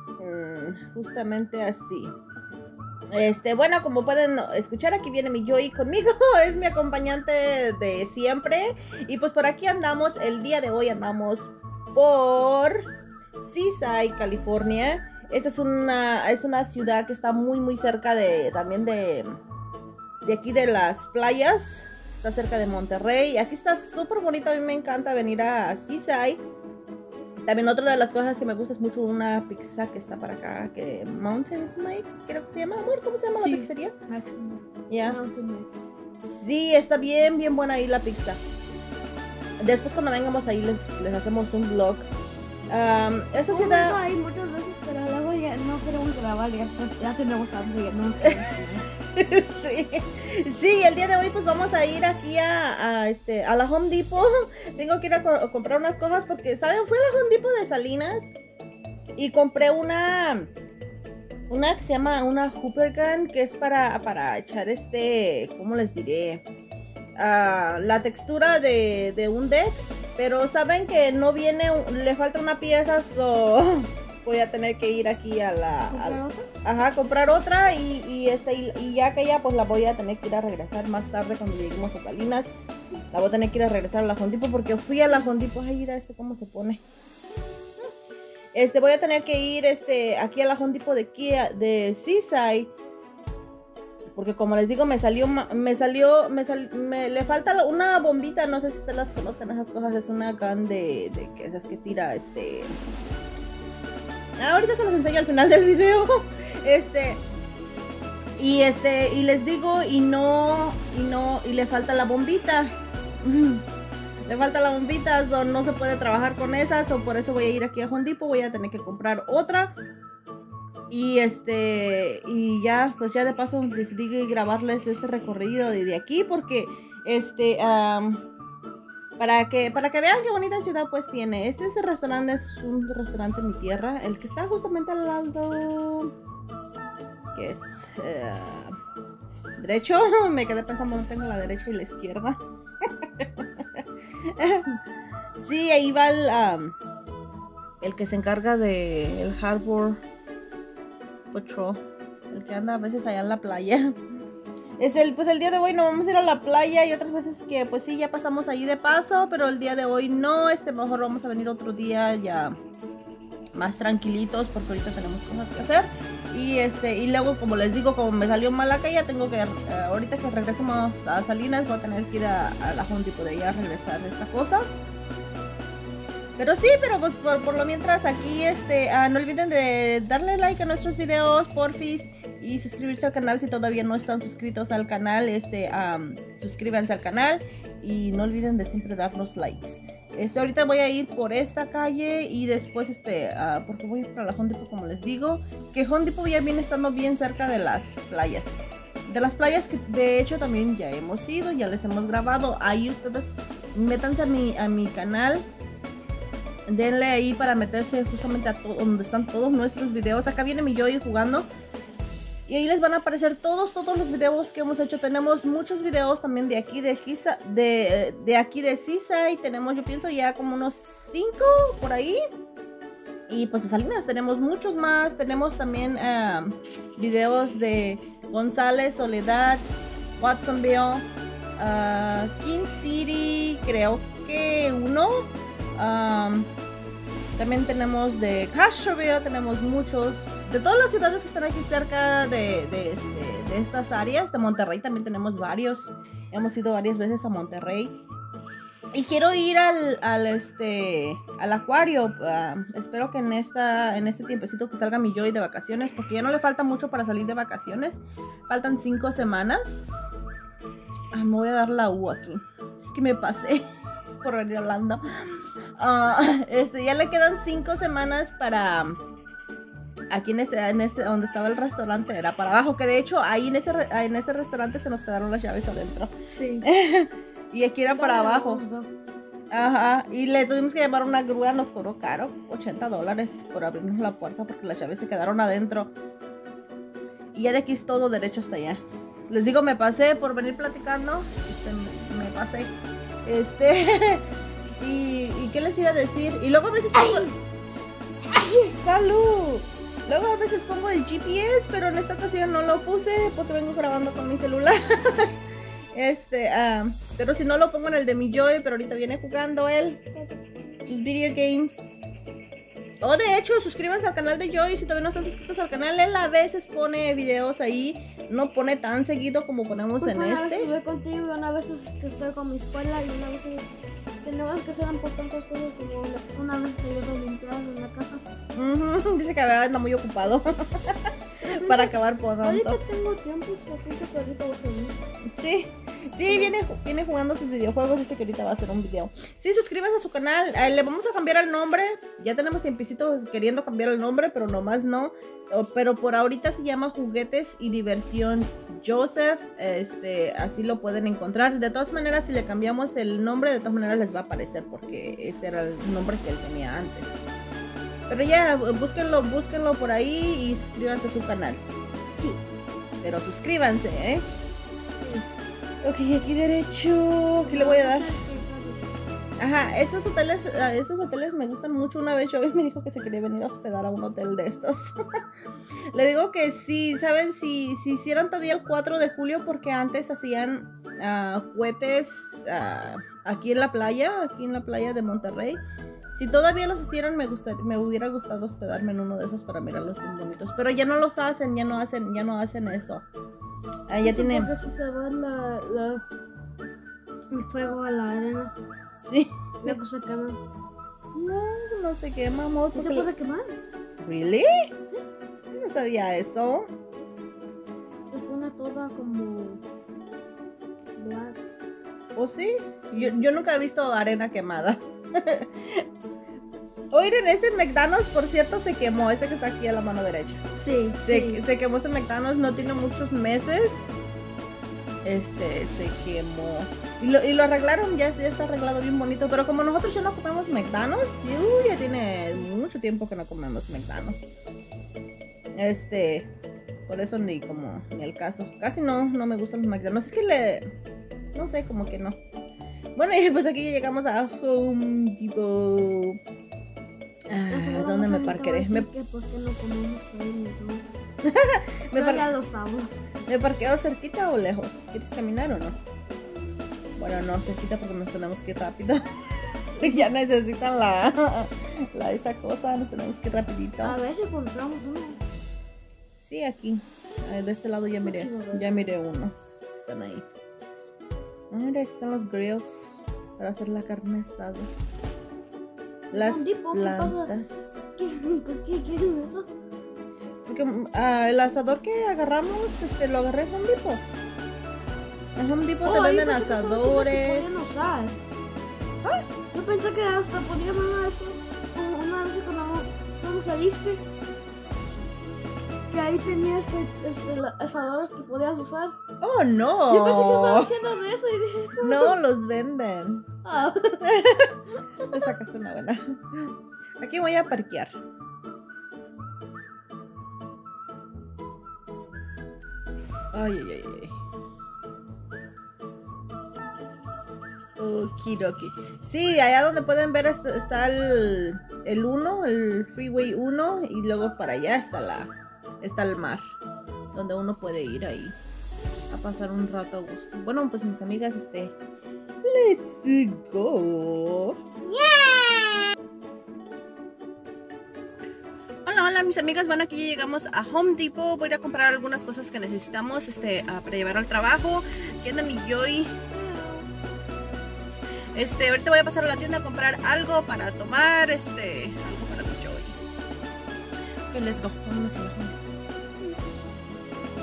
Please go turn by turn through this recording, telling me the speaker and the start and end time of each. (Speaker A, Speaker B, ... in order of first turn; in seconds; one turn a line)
Speaker A: 0.2-2.1
Speaker A: 3.1-12.8
Speaker A: 13.4-19.4
Speaker A: 20.2-26.4
Speaker A: 27.4-33.9
Speaker B: 33.3-35.8
Speaker A: 34.9-35.2
Speaker A: 36.2-38.4
Speaker A: 39.6-42.1
Speaker A: 42.7-44.0
Speaker B: 43.5-48.9
Speaker A: 49.1-58.3
Speaker A: 59.2-60.5
Speaker A: 61.5-66.4
Speaker A: 67.2-82.5
Speaker B: 75.9-76.5
Speaker A: 83.1-86.8
Speaker A: 88.5-92.7
Speaker A: 94.1-102.7
Speaker A: 104.4-107.2
Speaker A: 108.4-113.6
Speaker A: 114.2-119.8
Speaker A: 120.9-128.2
Speaker A: 129.2-136.1
Speaker A: 137.3-138.8
Speaker A: 139.6-142.4
Speaker A: 143.2-144.8
Speaker A: 145.3-146.8
Speaker A: 147.8-150.0
Speaker A: 151.3-154.0
Speaker A: 154.8-162.6
Speaker A: 163.6-174.6
Speaker A: 176.4-205.4
Speaker A: 206.7-211.5
Speaker A: 212.5-222.2
Speaker A: 223.3-229.7
Speaker A: 230.2-236.5
Speaker A: 237.3-247.9
Speaker A: 248.9-259.8
Speaker A: 261.1-263.6
Speaker A: 264.2-269.0
Speaker A: 270.1-278.6
Speaker B: 276.3-276.7
Speaker B: 277.9-278.9
Speaker A: 279.5-285.9
Speaker A: 287.3-294.2
Speaker A: 294.8-297.3
Speaker B: 296.9-297.3
Speaker B: 298.2-298.7
Speaker A: 298.7-305.3
Speaker A: 305.9-310.1
Speaker A: 310.9-311.7
Speaker A: 313.0-320.7
Speaker B: 320.0-323.7
Speaker B: 324.2-328.2
Speaker A: 328.5-332.8
Speaker B: 331.4-335.0
Speaker A: 335.4-357.2
Speaker B: 336.2-336.5
Speaker A: 358.1-361.6
Speaker A: 363.0-364.2
Speaker B: 365.0-365.2
Speaker A: 365.8-368.1
Speaker B: 367.4-368.8
Speaker A: 369.4-374.9
Speaker A: 375.9-385.6
Speaker A: 386.1-393.1
Speaker A: 393.9-394.5
Speaker B: 394.0-396.0
Speaker B: 397.3-398.5
Speaker A: 399.0-399.8
Speaker B: 399.6-400.4
Speaker A: 401.1-403.1
Speaker B: 402.7-403.6
Speaker A: 404.0-404.5
Speaker A: 405.5-406.7
Speaker B: 408.1-409.6
Speaker B: 410.9-411.4
Speaker A: 412.1-415.8
Speaker A: 416.9-420.4
Speaker B: 420.6-421.4
Speaker A: 421.0-423.9
Speaker A: 425.0-434.2
Speaker A: 435.6-436.3
Speaker A: 436.9-440.7
Speaker A: 441.3-442.2
Speaker A: 442.9-446.2
Speaker A: 447.3-448.9
Speaker B: 447.5-451.0
Speaker A: 451.2-452.2
Speaker B: 451.9-452.9
Speaker A: 453.3-455.8
Speaker A: 457.0-464.0
Speaker B: 463.8-465.2
Speaker A: 466.2-470.2
Speaker B: 468.0-468.7
Speaker A: 471.5-474.7
Speaker B: 476.1-477.3
Speaker A: 476.1-477.8
Speaker B: 478.0-479.5
Speaker A: 480.4-484.0
Speaker A: 485.4-487.5
Speaker B: 485.8-488.2
Speaker B: 489.5-494.1
Speaker B: 495.9-499.0
Speaker A: 499.2-500.7
Speaker B: 499.9-502.2
Speaker A: 501.8-503.2
Speaker B: 503.4-504.1
Speaker A: 504.1-506.5
Speaker B: 505.0-505.3
Speaker A: 507.0-507.9
Speaker A: 513.3-514.1
Speaker A: 517.8-526.4
Speaker A: 527.1-528.4
Speaker A: 529.1-531.7
Speaker A: 532.4-535.9
Speaker A: 538.9-546.2
Speaker B: 546.3-546.9
Speaker A: 548.3-553.0
Speaker A: 554.3-555.6